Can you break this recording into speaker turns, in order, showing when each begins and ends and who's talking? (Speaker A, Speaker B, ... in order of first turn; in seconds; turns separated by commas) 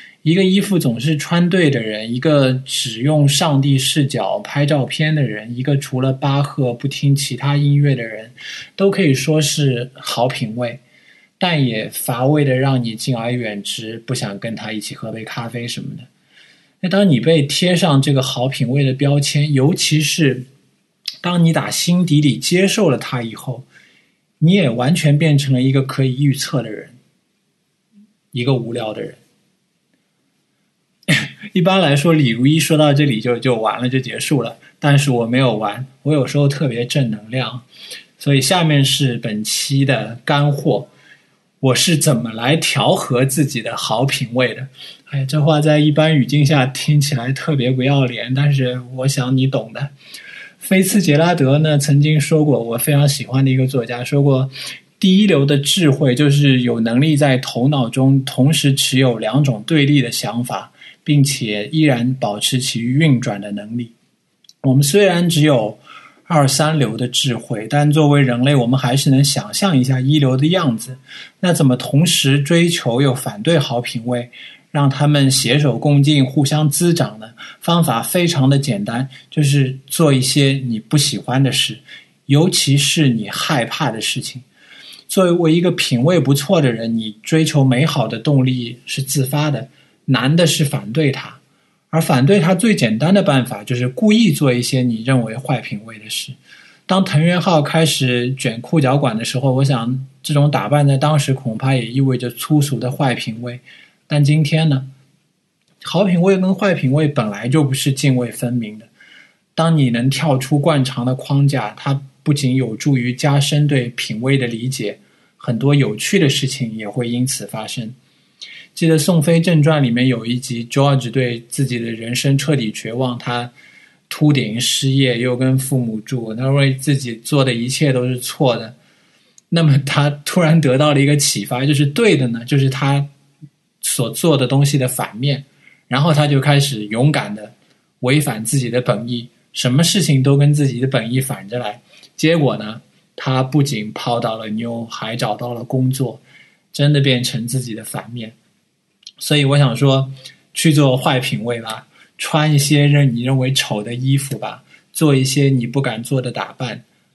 Speaker A: 0.2-10.8, Speaker A: 11.4-16.1, Speaker A: 16.8-20.5, Speaker A: 21.2-23.6, Speaker A: 24.4-26.9, Speaker A: 28.3-29.2, Speaker A: 31.1-37.6, Speaker A: 38.2-40.9, Speaker A: 41.6-49.9, Speaker A: 50.6-63.9, Speaker A: 64.6-84.5, Speaker A: 85.1-91.4, Speaker A: 91.9-96.4, Speaker A: 96.9-104.9, Speaker A: 105.8-108.9, Speaker A: 109.5-118.0, Speaker A: 118.7-123.5, Speaker A: 124.1-128.7, Speaker A: 129.5-133.1, Speaker A: 133.8-146.2, Speaker A: 146.7-148.3, Speaker A: 149.2-156.8